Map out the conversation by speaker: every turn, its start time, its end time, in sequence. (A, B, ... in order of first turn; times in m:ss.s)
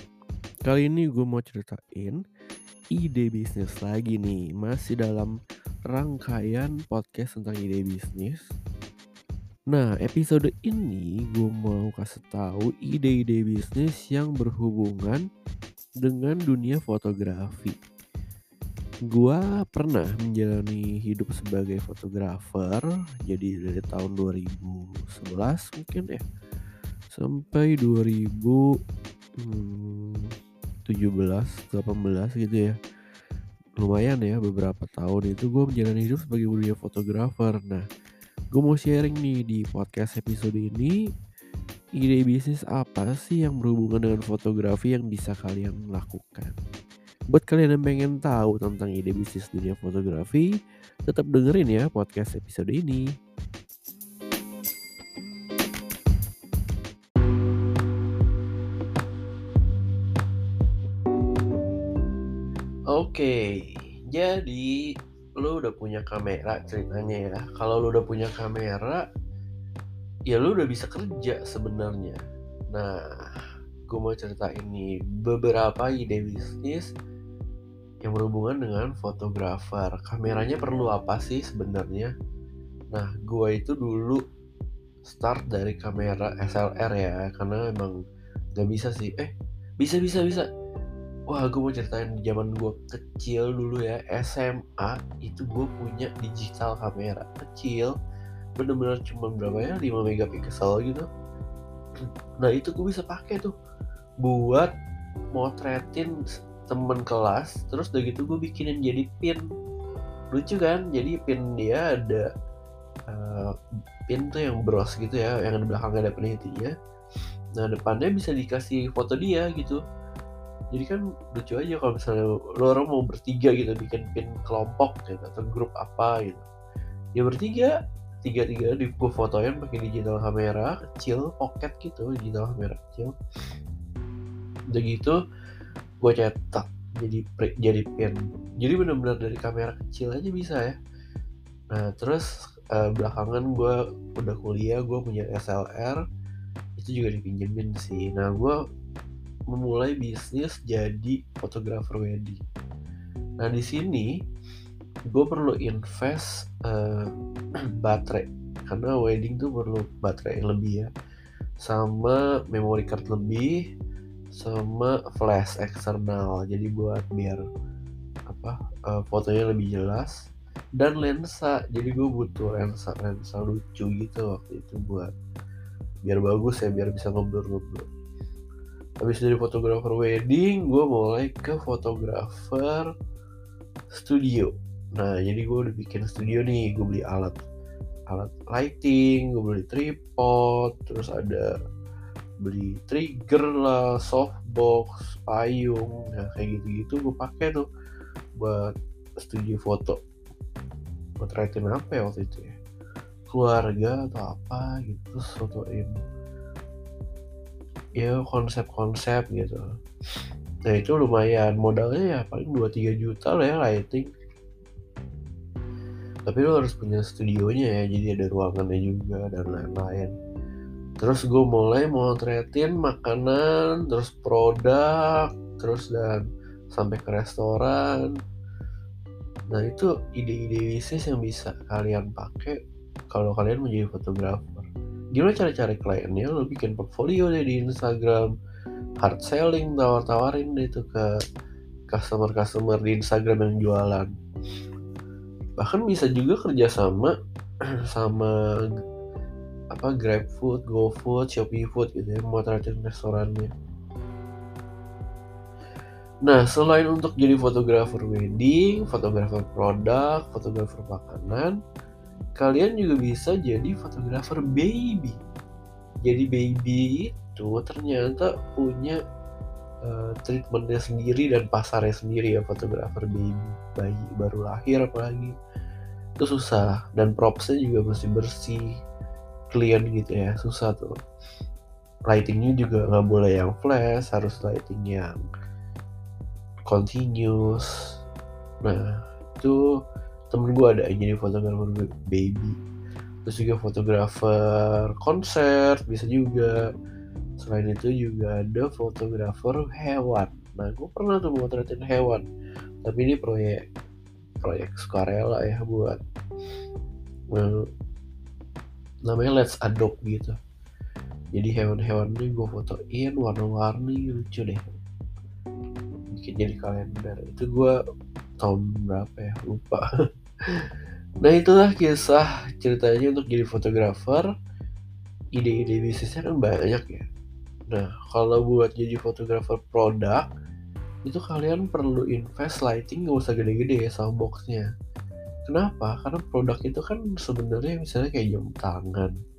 0:00.6-0:02.2 A
0:02.9-0:05.3 A
0:05.9-0:08.5 A
0:09.7-0:15.2 A
0:16.0-0:17.8 A
0:19.1-0:26.2 A
0:27.1-0:28.6 A
0:29.4-0:30.3 A
0:30.9-0:32.8 A
0:33.8-0:37.8 A
0:38.5-0:41.0 A
0:42.0-0:46.6 A
0:47.3-0:50.5 A
0:51.1-0:53.0 A
1:02.9-1:09.0 A
1:10.3-1:12.2 A
1:12.7-1:13.0 A
1:13.9-1:16.8 A
1:18.0-1:22.1 A
1:22.9-1:24.2 A
1:25.0-1:28.0 A
1:28.6-1:30.5 A
1:31.3-1:37.9 A
1:38.6-1:41.1 A
1:42.4-1:43.5 A
1:44.2-1:44.7 A
1:45.3-1:46.1 A
1:46.7-1:49.4 A
1:50.3-1:52.3 A
1:53.1-1:53.5 A
1:54.1-1:56.7 A
1:57.6-1:59.8 A
2:00.7-2:06.5 A
2:07.2-2:13.1 A
2:14.7-2:15.2 A
2:16.0-2:20.8 A
2:21.7-2:26.0 A
2:26.8-2:28.6 A
2:29.5-2:32.4 A
2:33.4-2:34.1 A
2:35.1-2:37.1 A
2:37.8-2:40.9 A
2:41.6-2:43.6 A
2:44.3-2:47.4 A
2:48.3-2:50.1 A
2:50.8-2:55.1 A
2:56.0-2:57.8 A
2:59.0-3:02.9 A
3:03.9-3:07.4 A
3:08.1-3:11.5 A
3:12.4-3:17.7 A
3:18.4-3:20.0 A
3:21.2-3:22.5 A
3:23.3-3:25.9 A
3:28.0-3:29.6 A
3:30.7-3:34.1 A
3:36.3-3:40.1 A
3:41.0-3:48.1 A
3:49.5-3:52.6 A
3:53.1-3:58.3 A
3:59.0-4:01.1 A
4:01.9-4:04.1 A
4:05.6-4:07.1 A
4:07.9-4:08.3 A
4:09.7-4:13.5 A
4:16.2-4:21.6 A
4:22.4-4:25.2 A
4:26.0-4:29.0 A
4:29.8-4:35.3 A
4:36.2-4:38.7 A
4:39.5-4:40.9 A
4:42.1-4:45.2 A
4:46.7-4:47.8 A
4:50.3-4:52.5 A
4:53.2-4:56.5 A
4:57.4-5:02.2 A
5:02.8-5:03.6 A
5:04.4-5:06.0 A
5:07.3-5:07.6 A
5:09.1-5:10.4 A
5:11.3-5:14.8 A
5:16.1-5:17.7 A
5:18.4-5:19.8 A
5:21.2-5:24.3 A
5:25.4-5:27.0 A
5:27.7-5:30.2 A
5:31.0-5:34.7 A
5:35.5-5:39.1 A